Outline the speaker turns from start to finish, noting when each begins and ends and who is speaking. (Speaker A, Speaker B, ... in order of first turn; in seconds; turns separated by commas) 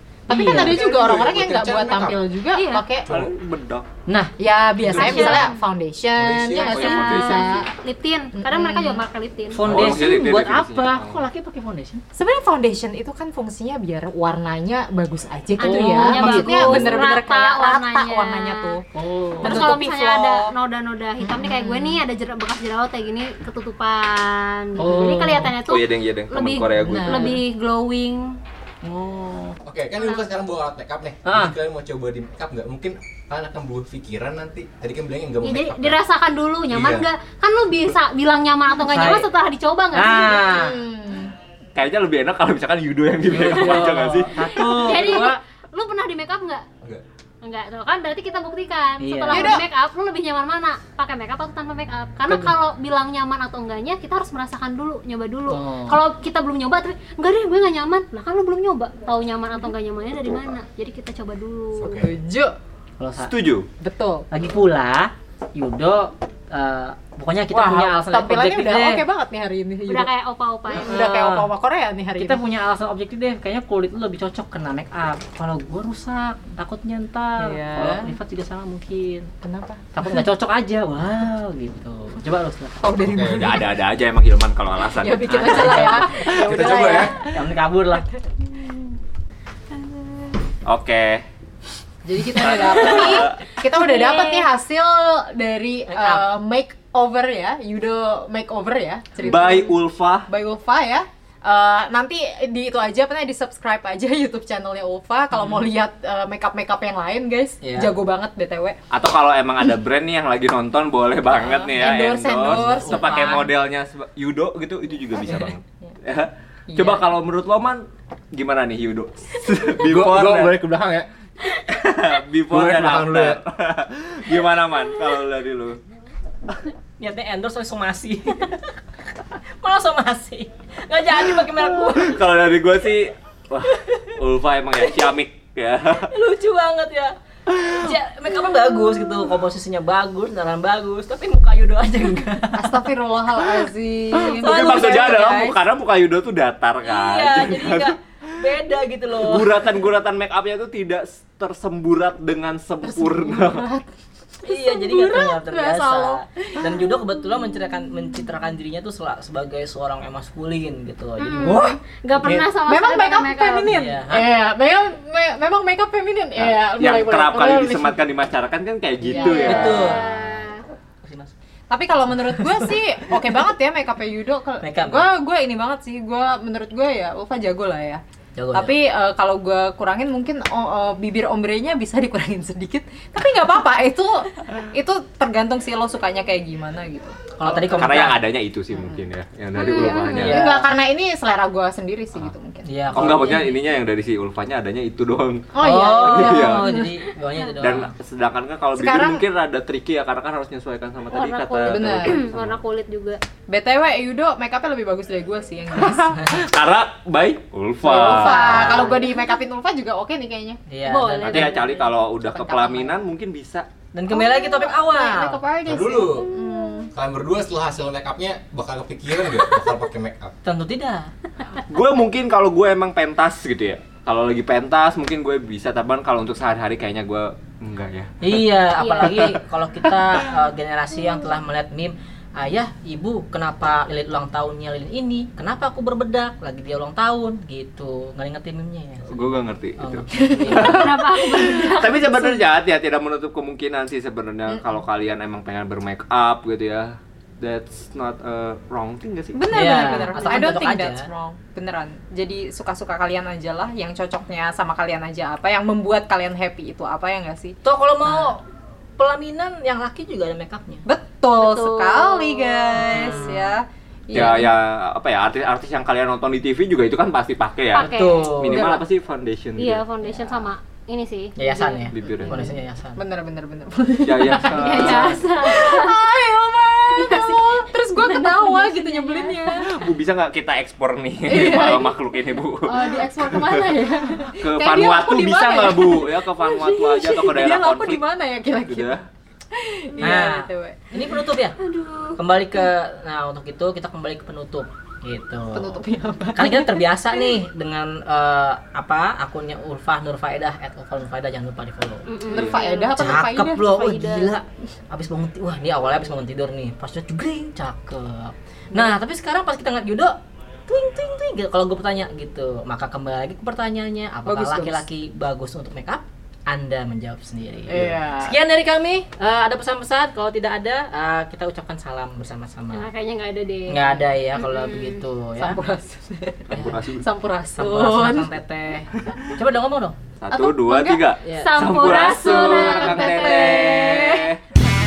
Speaker A: 0.3-0.8, Speaker B: 0.3-3.1, Speaker C: 0.4-2.2, Speaker D: 2.5-2.8, Speaker C: 3.0-3.3, Speaker E: 3.1-3.9, Speaker A: 4.1-4.3, Speaker B: 4.4-7.6, Speaker C: 4.9-5.4, Speaker D: 5.0-5.6, Speaker C: 6.2-6.8, Speaker D: 6.6-9.7, Speaker E: 6.6-7.7, Speaker B: 8.3-9.0, Speaker A: 9.5-12.0, Speaker E: 9.6-11.2, Speaker B: 12.1-18.8, Speaker D: 15.6-18.8, Speaker A: 15.6-17.0, Speaker A: 18.9-19.7, Speaker B: 19.4-20.5, Speaker D: 19.4-28.4, Speaker B: 21.2-22.0, Speaker A: 24.8-25.5, Speaker E: 25.6-27.4, Speaker A: 26.8-27.4, Speaker A: 28.8-29.6, Speaker C: 29.6-36.0, Speaker D: 30.0-30.2, Speaker A: 31.2-31.5, Speaker D: 35.4-40.4, Speaker C: 36.7-37.1, Speaker A: 38.8-39.3, Speaker A: 39.9-40.8, Speaker B: 40.3-41.3, Speaker E: 41.7-44.4, Speaker A: 43.3-45.4, Speaker D: 43.4-43.9, Speaker D: 44.4-46.6, Speaker D: 47.4-62.0, Speaker A: 49.0-49.6, Speaker B: 49.3-49.6, Speaker A: 52.3-52.5, Speaker A: 55.5-56.0, Speaker C: 61.8-62.1, Speaker B: 62.0-62.5, Speaker A: 63.0-63.3, Speaker E: 63.2-63.7, Speaker B: 63.8-64.2, Speaker A: 64.3-69.0, Speaker B: 67.5-70.1, Speaker D: 69.9-71.0, Speaker B: 70.7-72.4, Speaker A: 70.8-71.5, Speaker A: 72.2-79.3, Speaker B: 77.4-78.1, Speaker B: 79.4-80.2, Speaker A: 79.9-82.7, Speaker B: 82.8-83.7, Speaker C: 83.0-83.5, Speaker E: 83.2-86.9, Speaker B: 85.0-87.2, Speaker C: 86.3-87.2, Speaker A: 86.9-88.1, Speaker E: 90.6-91.2, Speaker B: 92.0-108.8, Speaker E: 92.3-93.4, Speaker D: 92.8-94.5, Speaker A: 95.9-96.3, Speaker E: 99.2-100.3, Speaker A: 107.6-107.9, Speaker E: 108.9-120.6, Speaker B: 111.3-113.5, Speaker A: 112.8-113.4, Speaker B: 116.7-117.0, Speaker C: 119.8-121.1, Speaker E: 121.5-125.8, Speaker C: 122.5-123.4, Speaker A: 127.0-128.7, Speaker A: 129.4-132.2, Speaker E: 131.4-136.1, Speaker A: 133.7-134.2, Speaker A: 136.1-142.7, Speaker E: 137.6-137.9, Speaker B: 142.5-145.6, Speaker E: 144.2-148.5, Speaker A: 144.4-145.3, Speaker A: 146.8-149.7, Speaker E: 149.2-153.7, Speaker B: 152.8-153.9, Speaker B: 154.4-156.9, Speaker A: 154.4-162.5, Speaker D: 161.2-163.7, Speaker B: 162.2-168.0, Speaker A: 163.7-164.3, Speaker E: 166.4-170.0, Speaker D: 169.1-170.6, Speaker B: 169.1-169.6, Speaker A: 169.4-170.1, Speaker A: 171.0-171.3, Speaker B: 171.7-178.0, Speaker A: 172.2-172.7, Speaker A: 174.6-175.0, Speaker A: 178.4-178.7, Speaker B: 178.5-187.6, Speaker A: 187.4-188.2, Speaker E: 187.5-190.4, Speaker B: 188.7-189.0, Speaker D: 189.5-190.4, Speaker B: 189.6-193.3, Speaker A: 190.1-190.7, Speaker A: 192.7-193.6, Speaker E: 192.9-196.8, Speaker B: 195.5-196.9, Speaker A: 195.6-197.9, Speaker E: 197.6-202.6, Speaker B: 198.7-199.2, Speaker D: 201.1-203.2, Speaker B: 201.7-202.2, Speaker B: 203.5-206.4, Speaker E: 205.8-208.9, Speaker B: 207.8-210.6, Speaker A: 207.9-209.0, Speaker A: 210.7-211.6, Speaker D: 210.8-211.9, Speaker E: 211.2-213.7, Speaker B: 212.2-213.0, Speaker A: 213.9-215.4, Speaker B: 214.1-216.9, Speaker C: 215.7-216.3, Speaker C: 216.9-220.3, Speaker A: 220.4-221.1, Speaker E: 221.5-228.4, Speaker A: 228.2-240.9, Speaker D: 228.8-229.3, Speaker E: 229.0-229.4, Speaker E: 239.1-250.1, Speaker D: 240.5-242.4, Speaker B: 249.3-258.4, Speaker A: 249.5-251.1, Speaker A: 257.6-258.4, Speaker A: 259.0-260.8, Speaker B: 260.8-264.5, Speaker D: 261.4-262.8, Speaker A: 262.7-263.5, Speaker E: 264.1-269.8, Speaker D: 267.7-268.4, Speaker A: 267.8-268.7, Speaker B: 268.4-268.8, Speaker D: 269.6-271.9, Speaker A: 271.4-273.0, Speaker E: 271.9-272.3, Speaker B: 272.2-279.9, Speaker E: 274.0-275.2, Speaker D: 274.5-276.0, Speaker D: 276.9-279.5, Speaker E: 279.5-283.7, Speaker B: 281.2-282.0, Speaker B: 282.6-289.0, Speaker E: 284.2-288.0, Speaker E: 288.7-289.1, Speaker B: 289.5-291.1, Speaker A: 290.0-291.6, Speaker D: 291.6-292.2, Speaker A: 292.2-295.8, Speaker B: 295.5-296.9, Speaker A: 296.4-302.1, Speaker D: 302.1-303.0, Speaker B: 302.3-304.3, Speaker E: 302.3-302.6, Speaker A: 302.9-322.9, Speaker B: 314.2-314.8, Speaker B: 317.7-318.4, Speaker D: 322.7-325.0, Speaker A: 323.7-325.6, Speaker B: 325.4-328.3, Speaker E: 326.5-327.1, Speaker A: 327.6-329.9, Speaker E: 330.2-334.4, Speaker B: 330.3-331.1, Speaker A: 331.2-332.2, Speaker D: 331.3-333.7, Speaker B: 332.2-334.4